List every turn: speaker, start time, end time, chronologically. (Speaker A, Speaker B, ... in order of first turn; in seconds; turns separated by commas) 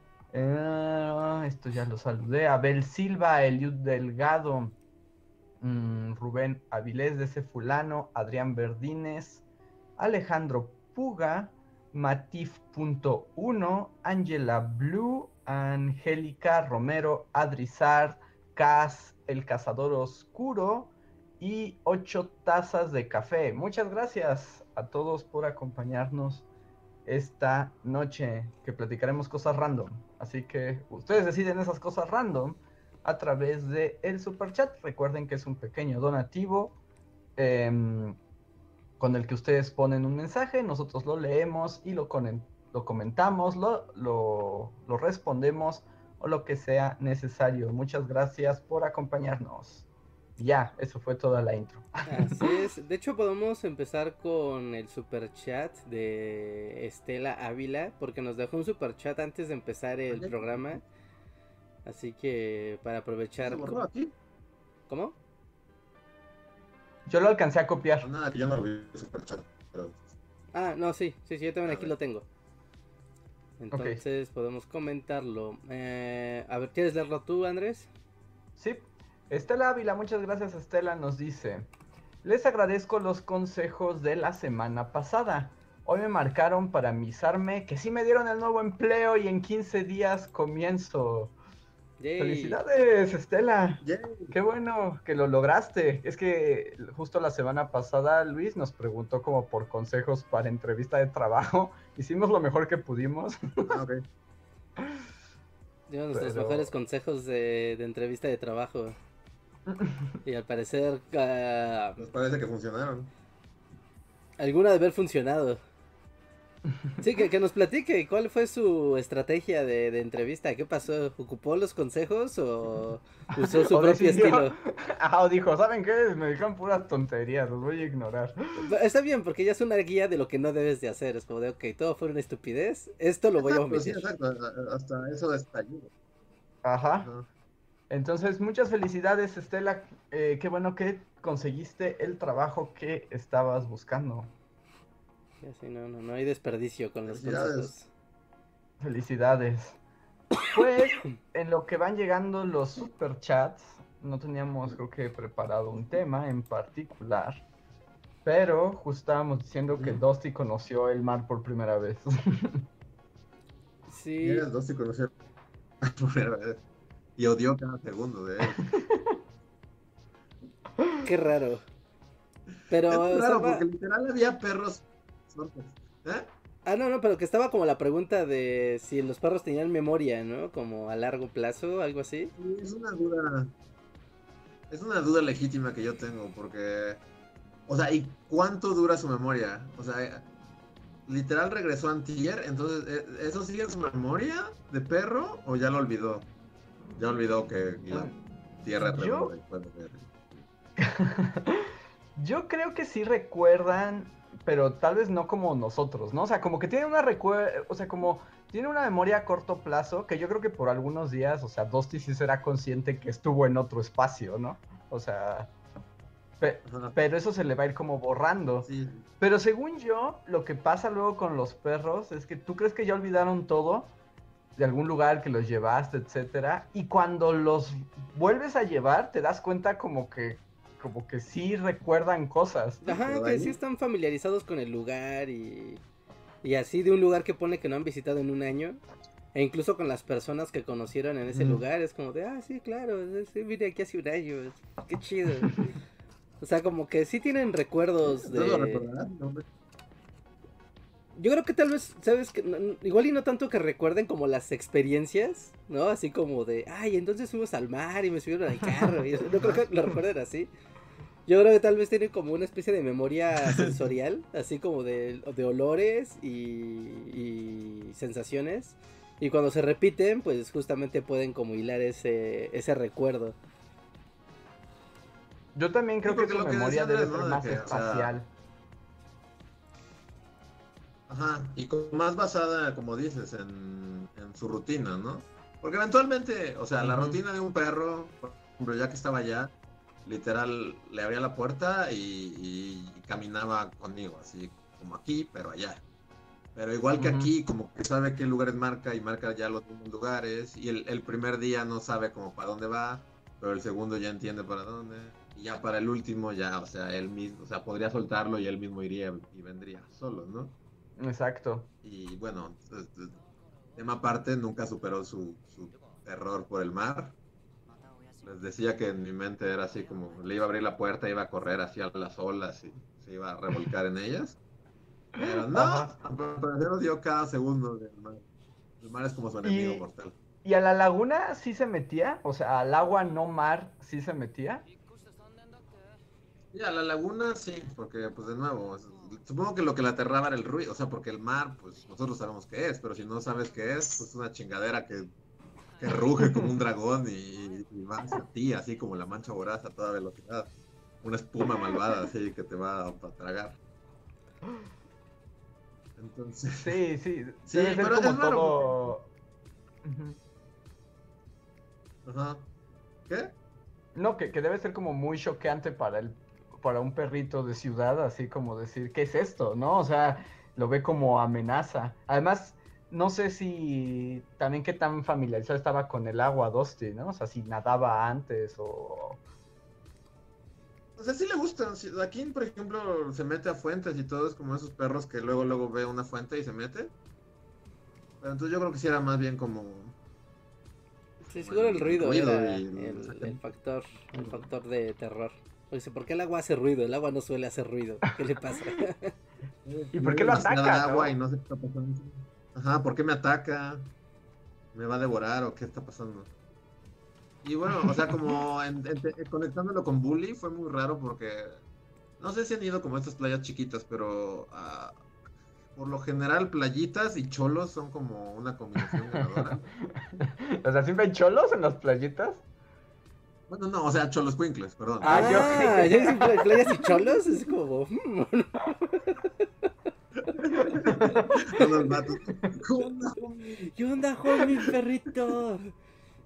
Speaker A: 0.3-4.7, Speaker A: 5.6-9.4, Speaker A: 10.0-26.4, Speaker A: 27.1-36.8, Speaker A: 37.4-38.2, Speaker A: 39.0-49.9, Speaker A: 50.4-52.5, Speaker B: 52.1-60.8, Speaker C: 60.1-60.8, Speaker B: 61.9-63.8, Speaker C: 63.4-64.1, Speaker B: 64.9-65.1, Speaker A: 67.1-68.1, Speaker C: 68.0-70.0, Speaker B: 70.5-72.2, Speaker C: 71.7-71.9, Speaker B: 73.6-77.9, Speaker A: 73.7-74.0, Speaker A: 78.5-81.7, Speaker A: 82.2-91.3, Speaker B: 92.0-92.6, Speaker A: 92.2-103.8, Speaker C: 93.8-94.3, Speaker C: 103.7-104.0, Speaker B: 105.9-109.0, Speaker A: 106.1-106.7, Speaker A: 109.7-110.1, Speaker B: 110.2-112.0, Speaker C: 112.0-113.1, Speaker B: 114.4-115.6, Speaker B: 117.0-124.5, Speaker A: 123.6-128.7, Speaker B: 128.6-134.1, Speaker C: 133.4-135.9, Speaker A: 136.6-137.1, Speaker C: 137.0-137.3, Speaker A: 137.9-144.3, Speaker B: 145.4-147.9, Speaker C: 147.1-147.7, Speaker A: 148.8-149.8, Speaker A: 150.5-157.4, Speaker A: 158.2-162.7, Speaker C: 159.7-160.0, Speaker B: 163.9-164.5, Speaker C: 164.2-165.1, Speaker C: 165.8-166.6, Speaker C: 167.2-168.7, Speaker A: 168.4-169.2, Speaker B: 171.0-171.6, Speaker B: 172.7-173.6, Speaker C: 172.9-176.3, Speaker B: 176.6-182.3, Speaker C: 182.3-183.5, Speaker C: 184.7-187.0, Speaker C: 187.7-190.3, Speaker C: 191.1-196.3, Speaker C: 197.0-200.4, Speaker A: 198.8-199.3, Speaker A: 200.8-215.5, Speaker A: 216.4-218.7, Speaker C: 216.6-216.9, Speaker C: 218.6-219.1, Speaker A: 219.2-223.9, Speaker A: 224.6-232.8, Speaker B: 232.8-235.8, Speaker C: 232.9-233.5, Speaker B: 236.4-238.8, Speaker B: 239.3-245.6, Speaker A: 241.3-241.6, Speaker B: 246.4-248.8, Speaker C: 248.0-249.4, Speaker B: 251.2-260.5, Speaker B: 261.2-273.4, Speaker C: 263.4-263.9, Speaker A: 275.5-278.3, Speaker C: 276.0-278.1, Speaker C: 281.1-289.5, Speaker A: 286.8-287.2, Speaker C: 290.0-295.8, Speaker C: 296.5-310.6, Speaker A: 297.0-297.3, Speaker A: 311.0-311.7, Speaker C: 311.8-313.1, Speaker C: 313.7-317.2, Speaker C: 318.2-324.4, Speaker C: 325.2-328.2, Speaker A: 325.5-326.0, Speaker C: 328.8-330.2, Speaker A: 329.4-329.9, Speaker A: 330.4-334.6, Speaker C: 336.5-345.1, Speaker C: 345.8-353.6, Speaker A: 346.2-346.5, Speaker C: 356.0-356.8, Speaker A: 356.6-359.1, Speaker C: 357.5-358.9, Speaker A: 359.8-360.2, Speaker C: 362.1-362.5, Speaker C: 363.1-363.3, Speaker A: 363.9-379.2, Speaker C: 381.0-386.9, Speaker C: 388.2-389.9, Speaker C: 391.2-393.4, Speaker B: 391.3-399.1, Speaker C: 394.1-394.4, Speaker C: 399.6-403.9, Speaker A: 399.9-401.1, Speaker C: 404.7-406.3, Speaker C: 407.4-411.6, Speaker C: 412.2-414.9, Speaker C: 415.8-419.7, Speaker A: 418.9-422.4, Speaker C: 423.5-426.1, Speaker A: 425.0-427.0, Speaker B: 425.0-429.5, Speaker C: 430.3-433.7, Speaker A: 430.7-431.3, Speaker B: 431.1-432.0, Speaker B: 433.7-435.7